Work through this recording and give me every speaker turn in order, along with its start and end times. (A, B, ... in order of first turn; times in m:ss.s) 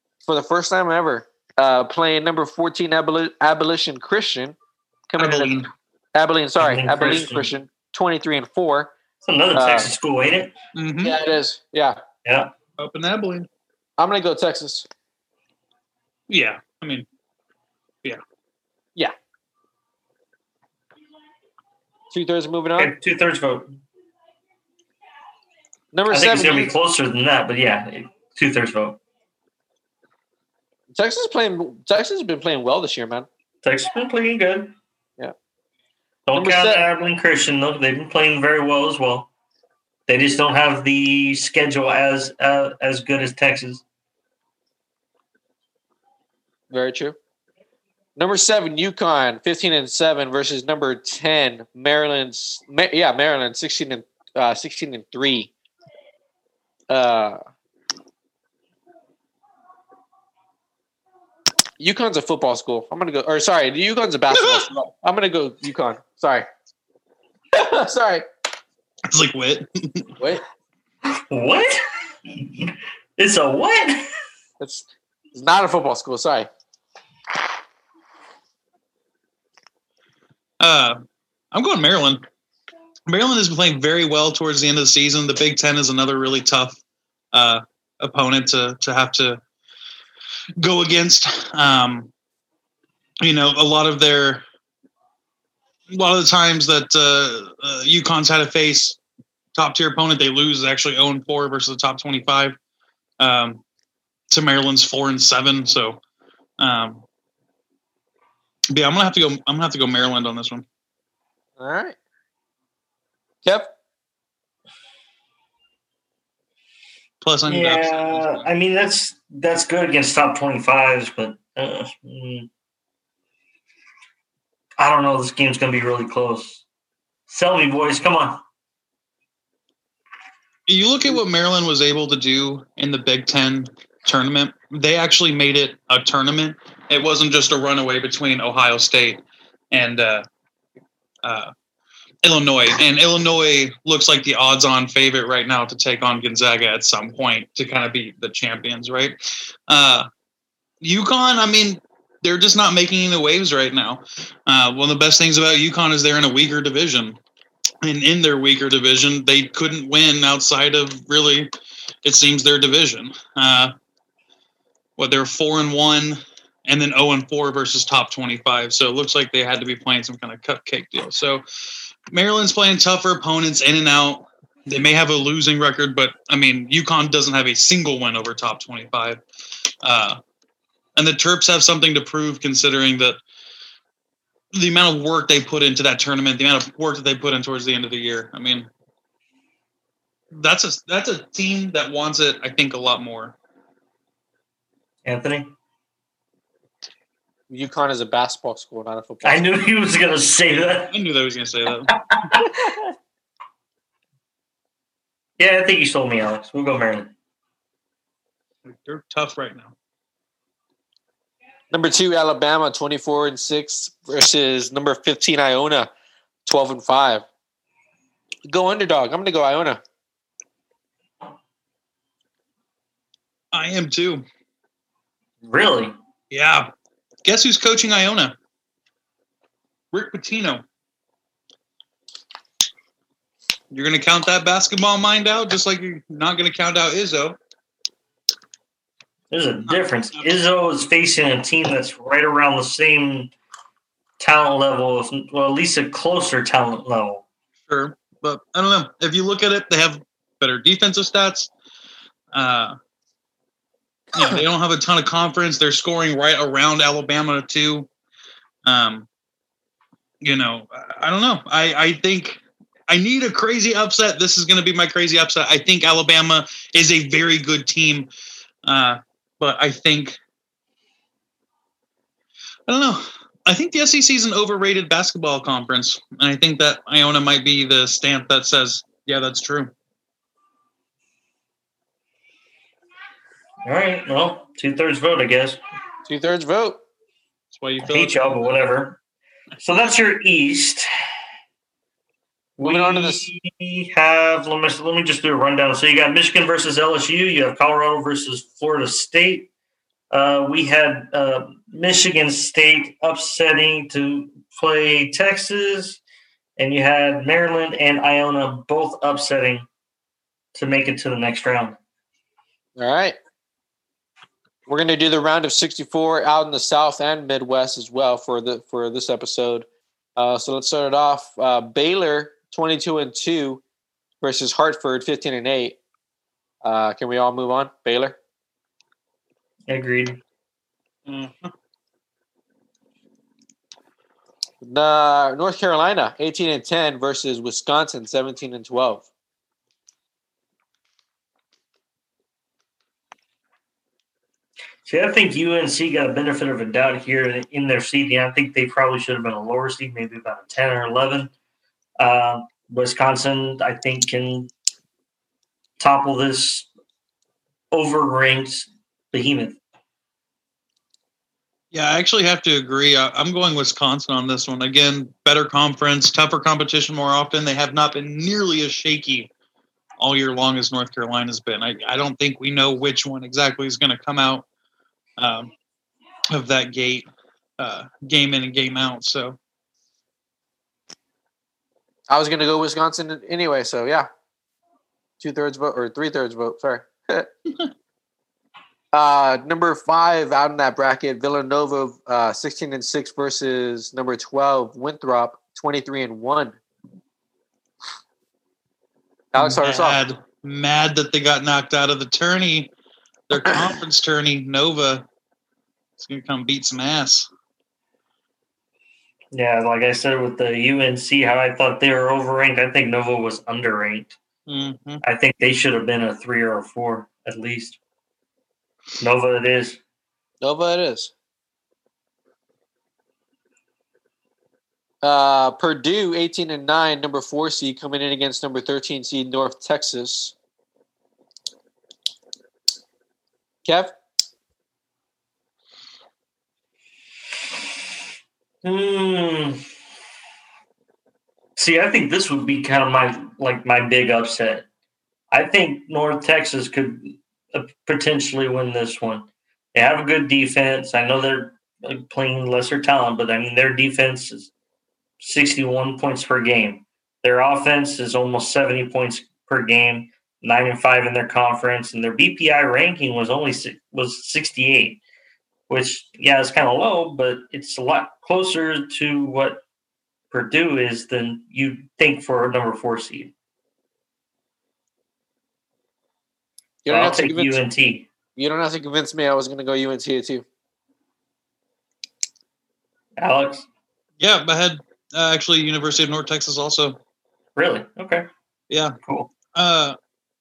0:00.2-0:04.6 A
0:05.1-0:05.5 A
0:05.2-0:05.7 B
0:06.2-0:08.9 A
0:06.6-0:07.5 C
0:09.2-0:10.5 C
0:09.5-0:09.9 A
0:10.8-0:11.2 B
0:11.0-0:12.0 A
0:12.2-0:12.5 C
0:12.8-0:13.5 B
0:14.0-0:14.9 A
0:16.3-0:17.1 B
0:22.1-0:22.9 A
0:22.8-0:23.8 C
0:25.9-0:26.7 A
0:26.1-0:29.0 C
0:30.9-0:33.3 A
0:33.6-0:34.7 C
0:36.3-0:39.3 C
0:36.3-0:36.8 A
0:40.1-0:43.8 C
0:46.7-0:47.2 A
0:48.2-0:55.5 A
0:56.9-0:57.4 A
1:01.8-1:06.5 A
1:04.3-1:04.6 B
1:07.5-1:08.3 A
1:09.1-1:10.2 B
1:11.3-1:11.8 C
1:12.6-1:14.0 C
1:14.6-1:16.5 A
1:20.6-1:21.0 B
1:21.5-1:22.2 B
1:23.1-1:26.8 B
1:27.3-1:29.4 B
1:30.6-1:32.1 B
1:33.2-1:34.4 B
1:35.9-1:39.0 B
1:39.6-1:42.6 B
1:43.2-1:43.6 B
1:44.3-1:46.0 B
1:46.6-1:47.0 B
1:48.7-1:50.6 B
1:51.6-1:52.0 A
1:53.4-1:53.7 A
1:57.2-1:58.5 B
1:57.5-2:02.5 C
2:04.8-2:06.6 C
2:07.3-2:08.4 C
2:10.7-2:20.2 B
2:21.2-2:21.5 B
2:22.2-2:29.2 B
2:29.7-2:30.1 B
2:30.8-2:37.2 B
2:37.8-2:41.5 B
2:42.0-2:43.7 B
2:45.0-2:51.4 B
2:52.1-2:59.2 B
2:59.8-3:00.2 B
3:01.0-3:03.2 B
3:04.5-3:08.7 B
3:10.3-3:13.4 B
3:15.0-3:15.5 C
3:17.5-3:19.6 A
3:19.2-3:20.9 C
3:20.8-3:22.0 B
3:22.1-3:22.7 C
3:25.4-3:27.1 C
3:28.7-3:29.8 B
3:31.7-3:35.9 A
3:36.5-3:37.3 A
3:38.4-3:39.8 A
3:43.5-3:44.2 B
3:45.4-3:45.9 C
3:46.3-3:46.7 B
3:47.2-3:48.3 B
3:49.9-3:50.6 B
3:53.7-3:57.4 B
3:59.3-4:03.3 C
3:59.7-4:00.4 B
4:04.2-4:07.2 C
4:07.7-4:11.5 B
4:12.3-4:12.8 B
4:14.1-4:17.9 B
4:18.6-4:19.1 B
4:20.2-4:28.1 B
4:28.6-4:30.2 B
4:32.7-4:39.7 B
4:43.7-4:45.6 C
4:46.1-4:46.8 A
4:47.5-4:48.5 B
4:47.8-4:49.0 C
4:49.6-4:50.9 C
4:52.6-4:59.5 C
4:52.6-4:53.3 A
5:00.1-5:06.0 C
5:06.6-5:09.7 C
5:10.6-5:11.8 C
5:12.8-5:13.2 A
5:14.7-5:23.6 A
5:24.2-5:25.8 A
5:26.6-5:28.2 A
5:29.7-5:30.2 C
5:31.1-5:31.5 B
5:34.6-5:39.1 A
5:44.8-5:51.3 C
5:52.0-5:54.5 C
5:55.8-5:56.7 C
5:57.7-5:59.6 C
6:01.7-6:09.3 B
6:10.0-6:14.5 B
6:15.2-6:15.5 B
6:16.3-6:17.1 B
6:17.6-6:19.4 B
6:22.1-6:24.1 A
6:25.2-6:27.3 A
6:28.9-6:36.6 A
6:39.3-6:40.0 A
6:39.4-6:42.7 B
6:43.3-6:45.1 B
6:46.0-6:47.3 B
6:49.3-6:54.2 C
6:54.5-6:55.0 B
6:55.0-6:57.8 C
6:59.0-6:59.8 C
7:00.4-7:01.1 A
7:05.0-7:10.3 A
7:13.6-7:14.0 A
7:18.6-7:19.6 C
7:21.6-7:24.7 C
7:25.3-7:34.5 C
7:35.2-7:45.0 C
7:45.7-7:49.6 C
7:50.3-7:53.3 C
7:56.8-7:57.6 A
7:56.9-7:58.1 C
7:58.4-8:00.4 A
8:03.2-8:03.7 C
8:04.2-8:07.0 B
8:07.6-8:08.3 C
8:08.7-8:09.0 B
8:09.0-8:09.3 C
8:09.5-8:10.0 B